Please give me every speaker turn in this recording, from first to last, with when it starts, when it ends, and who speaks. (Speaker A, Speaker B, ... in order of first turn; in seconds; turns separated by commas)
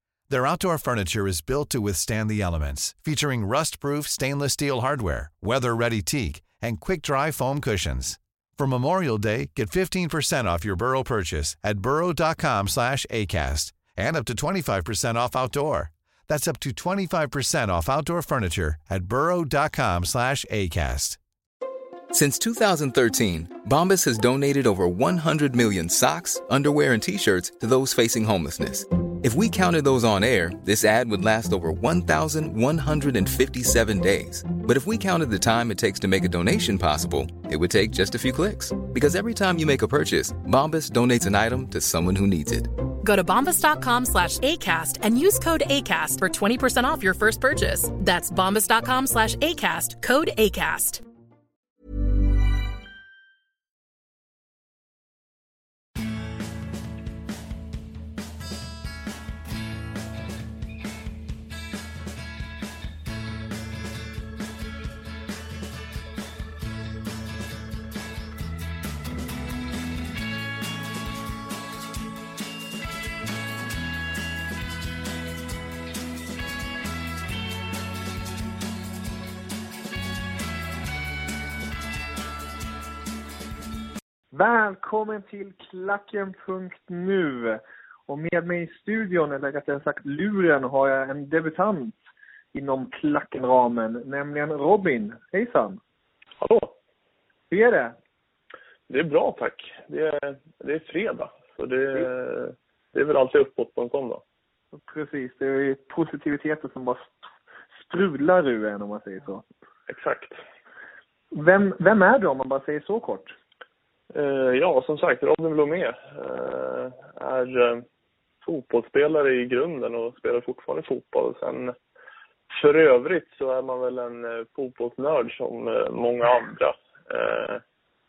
Speaker A: 0.3-21.2, Speaker B: 22.1-42.7, Speaker C: 43.0-51.0, Speaker D: 84.3-92.0, Speaker D: 92.5-95.8, Speaker E: 96.4-96.7, Speaker D: 97.5-98.0, Speaker E: 98.9-104.2, Speaker D: 104.8-107.2, Speaker D: 107.8-109.4, Speaker E: 109.9-110.4, Speaker D: 111.3-113.3, Speaker E: 114.1-117.8, Speaker E: 118.4-121.8, Speaker E: 122.5-127.6